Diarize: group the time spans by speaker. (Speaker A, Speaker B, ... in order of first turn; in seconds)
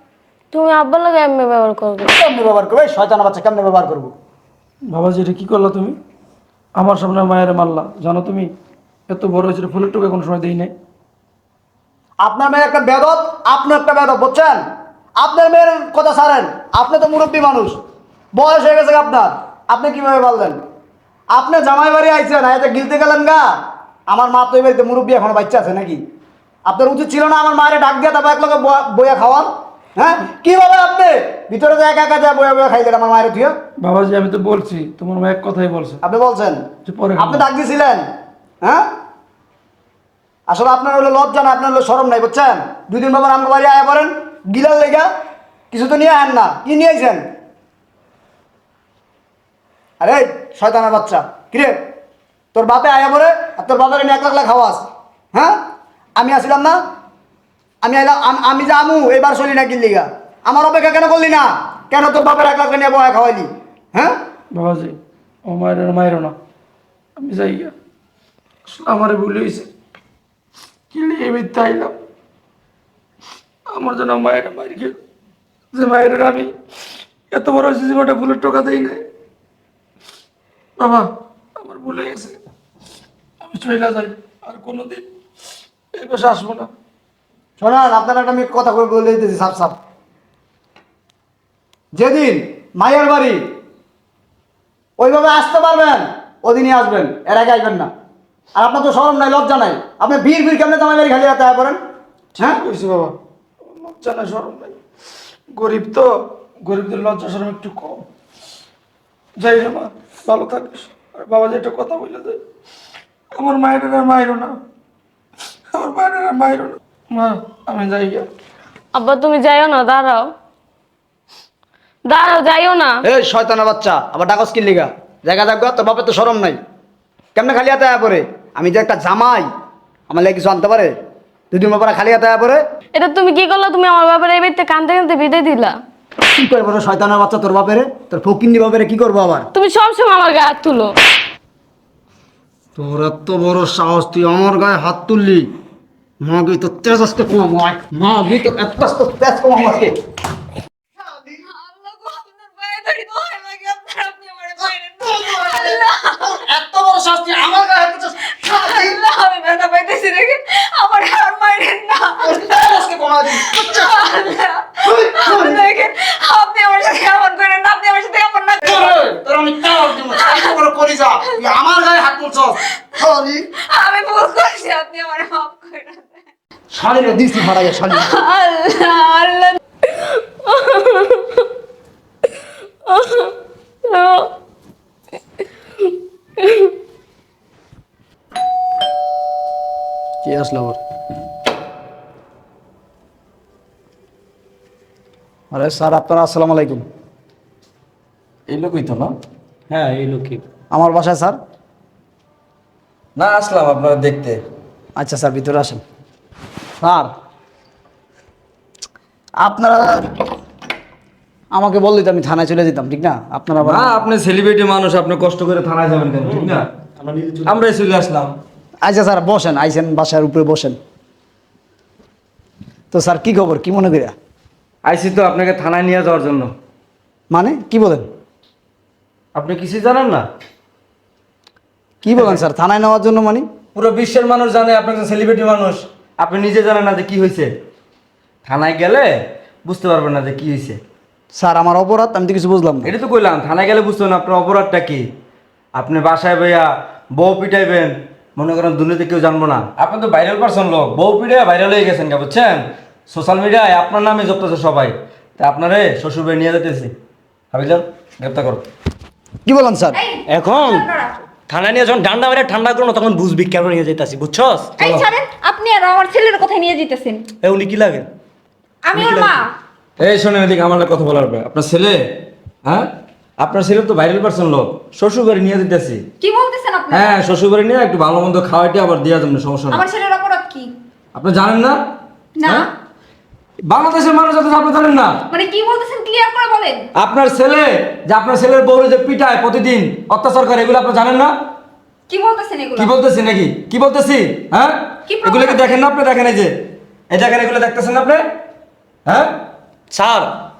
Speaker A: 0.5-2.1, 118.9-120.3, 122.1-122.9, 132.9-135.7, 139.5-140.9, 180.1-181.4, 182.9-183.3, 183.8-184.3, 186.4-186.7
Speaker B: 2.1-4.1, 12.2-14.6, 15.2-17.8, 18.3-20.6, 21.3-23.4, 24.1-26.0, 26.6-33.5, 36.0-36.6, 37.2-38.0, 40.5-45.1, 45.7-47.2, 50.0-51.8, 52.5-55.6, 56.2-56.8, 57.8-64.1, 87.6-89.8, 91.9-93.4, 95.0-97.9, 98.5-101.8, 123.0-126.6, 127.3-129.5, 130.1-130.9, 131.5-132.6, 136.3-139.5, 142.8-145.5, 146.2-149.9, 155.1-155.8, 156.3-158.9, 162.2-163.9, 164.8-165.6, 168.6-173.4, 176.7-178.1, 190.2-190.8, 195.5-196.8, 200.7-201.4, 205.0-205.8, 206.8-207.1, 209.4-210.1, 211.5-214.0, 218.8-220.8, 222.9-224.1, 227.3-228.1, 232.0-233.4, 241.3-242.9, 259.4-260.0
Speaker C: 4.9-5.9, 6.8-8.5, 9.1-10.7, 33.8-36.0, 36.9-37.5, 64.5-66.3, 67.2-67.7, 68.7-69.7, 70.9-71.9, 73.7-75.0, 75.7-76.5, 77.3-79.0, 80.8-82.4, 83.4-85.0, 85.9-86.7, 102.3-104.8, 105.5-108.0, 109.4-112.4, 113.3-114.6, 115.7-118.3
Speaker D: 151.5-156.4, 158.2-162.7, 163.3-169.0, 170.0-170.6, 171.2-171.5, 173.5-176.2, 177.9-179.6, 259.9-261.1, 264.8-267.2, 268.8-269.5, 276.2-277.2, 279.7-280.7, 282.4-282.7, 285.3-286.8, 292.1-292.9, 295.1-295.6
Speaker E: 198.5-199.1, 203.2-204.4, 213.6-216.7, 217.4-218.3, 224.8-226.5, 229.3-230.3, 232.1-232.4, 233.7-237.5, 238.4-239.1, 239.6-240.8, 242.8-245.0, 245.7-256.9, 257.5-258.6, 264.8-265.0, 270.0-272.0, 273.4-276.0, 276.9-279.8, 281.1-281.8, 283.7-285.2, 286.9-291.3, 292.8-296.5, 297.1-298.2, 299.1-299.3
Speaker F: 199.7-200.4, 216.3-217.5, 260.3-260.9, 261.5-264.7, 267.4-268.1, 268.9-269.4, 299.9-300.3